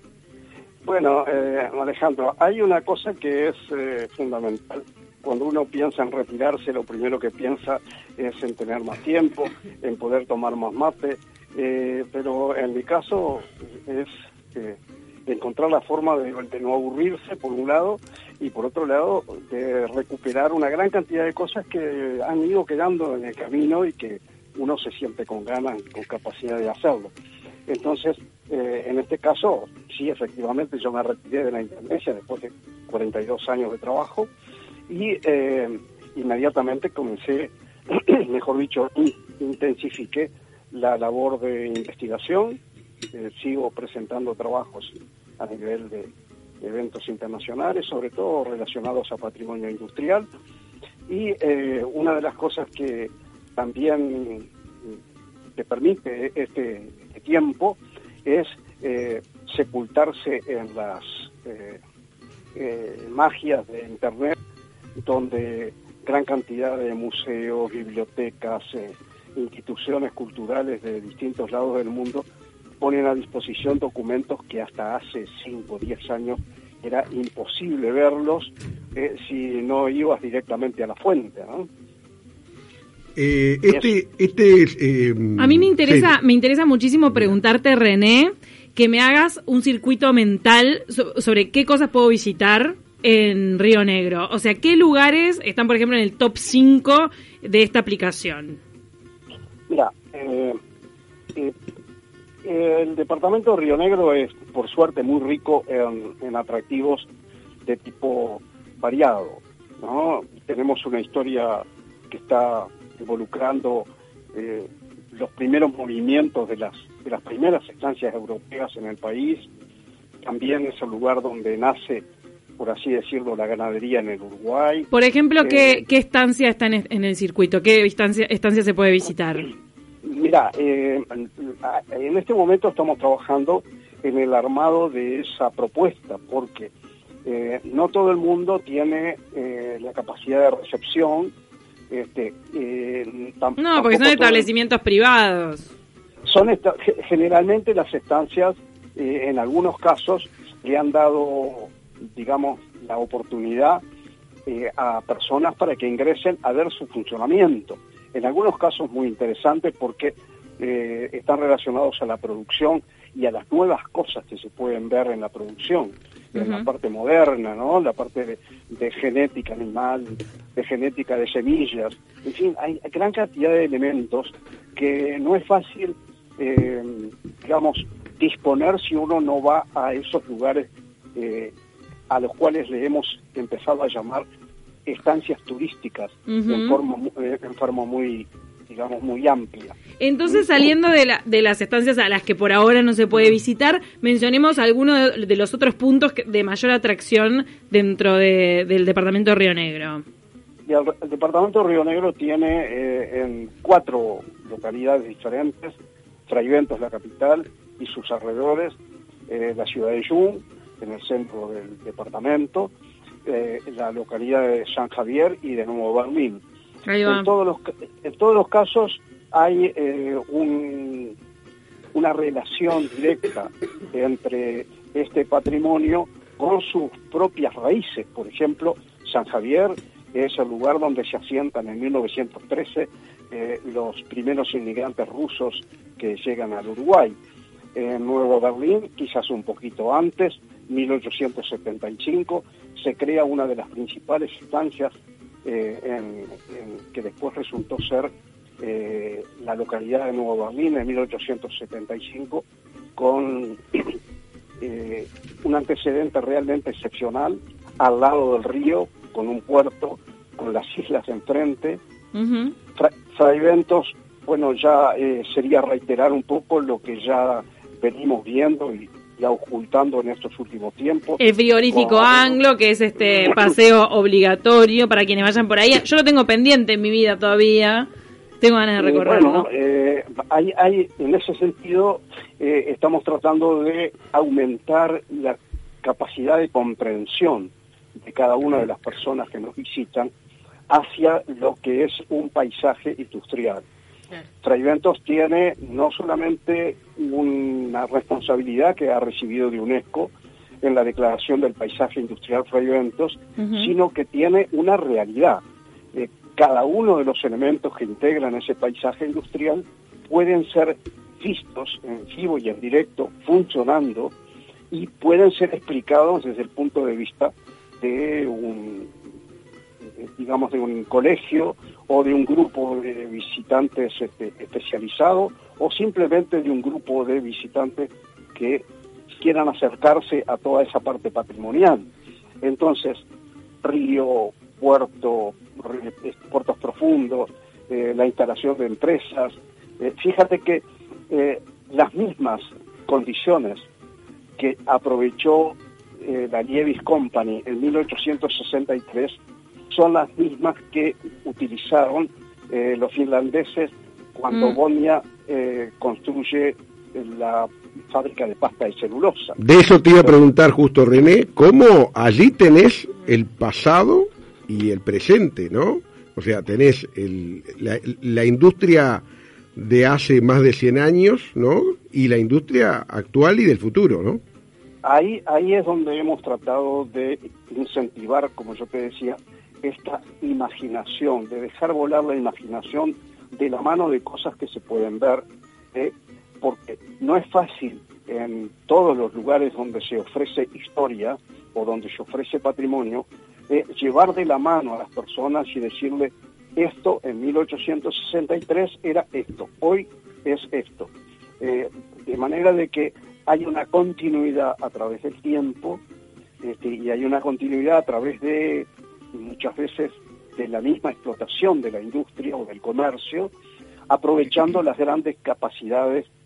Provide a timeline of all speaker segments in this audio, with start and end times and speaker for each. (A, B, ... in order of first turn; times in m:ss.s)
0:00.8-0:27.1 A
0:27.7-0:34.3 A
0:34.9-0:42.6 A
0:43.1-0:46.1 A
0:46.6-0:50.3 A
0:51.1-0:54.9 A
0:55.6-1:01.8 A
1:02.6-1:04.4 A
1:05.0-1:12.2 A
1:12.8-1:21.7 A
1:23.2-1:26.1 B
1:25.4-1:38.6 C
1:39.7-1:40.6 A
1:42.4-1:47.1 A
1:47.7-1:59.5 A
2:00.2-2:02.0 A
2:02.6-2:04.9 A
2:04.9-2:09.5 C
2:05.4-2:05.8 A
2:10.0-2:16.7 A
2:17.2-2:21.3 A
2:21.9-2:24.5 A
2:23.6-2:25.7 C
2:26.3-2:33.8 A
2:34.4-3:01.5 A
2:46.3-2:46.7 C
3:02.1-3:04.2 A
3:04.8-3:09.8 A
3:06.3-3:06.8 C
3:10.0-3:20.0 C
3:20.7-3:25.8 A
3:26.3-3:28.8 A
3:29.3-3:32.7 A
3:33.3-3:36.4 A
3:36.8-3:37.3 C
3:37.1-3:41.2 A
3:41.9-3:57.2 A
3:57.8-4:04.9 A
4:05.4-4:12.4 A
4:13.0-4:14.0 A
4:14.6-4:21.8 A
4:22.1-4:22.5 C
4:22.8-4:32.4 A
4:31.2-4:37.9 C
4:38.4-4:39.5 C
4:38.8-4:50.1 A
4:50.7-4:53.6 A
4:54.4-5:05.4 A
5:03.4-5:03.7 C
5:05.9-5:14.1 A
5:14.7-5:18.9 A
5:20.0-5:28.6 A
5:29.2-5:31.8 A
5:32.4-5:33.0 A
5:33.6-5:43.6 A
5:44.4-5:49.2 A
5:49.7-5:59.4 A
5:54.3-5:54.6 C
5:59.4-6:09.0 B
6:09.6-6:14.2 B
6:14.8-6:45.8 A
6:46.4-6:53.3 A
6:53.9-6:56.1 A